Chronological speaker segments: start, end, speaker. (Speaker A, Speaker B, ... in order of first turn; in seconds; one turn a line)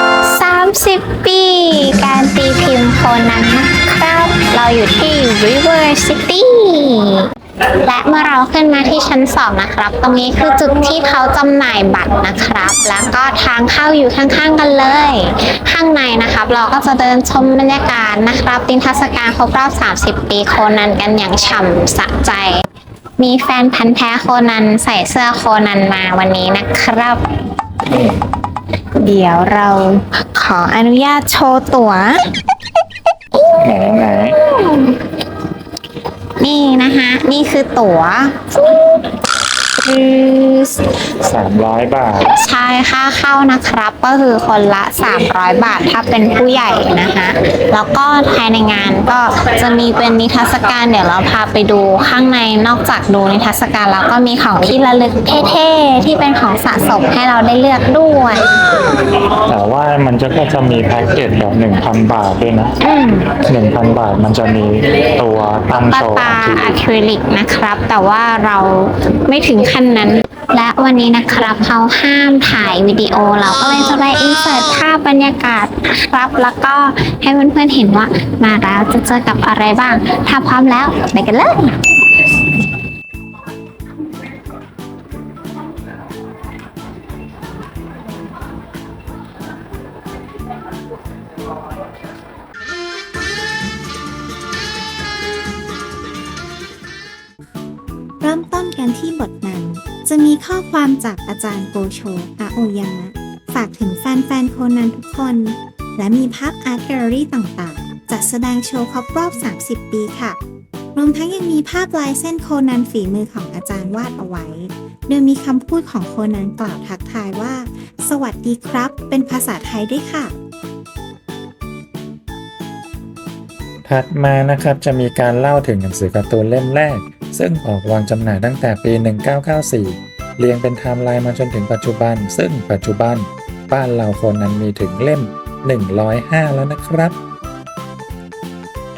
Speaker A: 0.3-7.3
Speaker A: 7.8-22.6
Speaker A: 23.2-27.2
Speaker A: 29.0-32.3
Speaker B: 33.6-34.4
Speaker A: 34.4-35.0
Speaker A: 36.4-39.1
Speaker A: 39.8-40.8
Speaker B: 41.2-42.3
Speaker A: 42.4-58.5
Speaker B: 59.5-62.7
Speaker A: 62.8-63.3
Speaker B: 63.4-66.7
Speaker A: 65.9-81.8
Speaker C: 98.2-110.4
Speaker C: 111.0-120.3
Speaker B: 123.9-137.2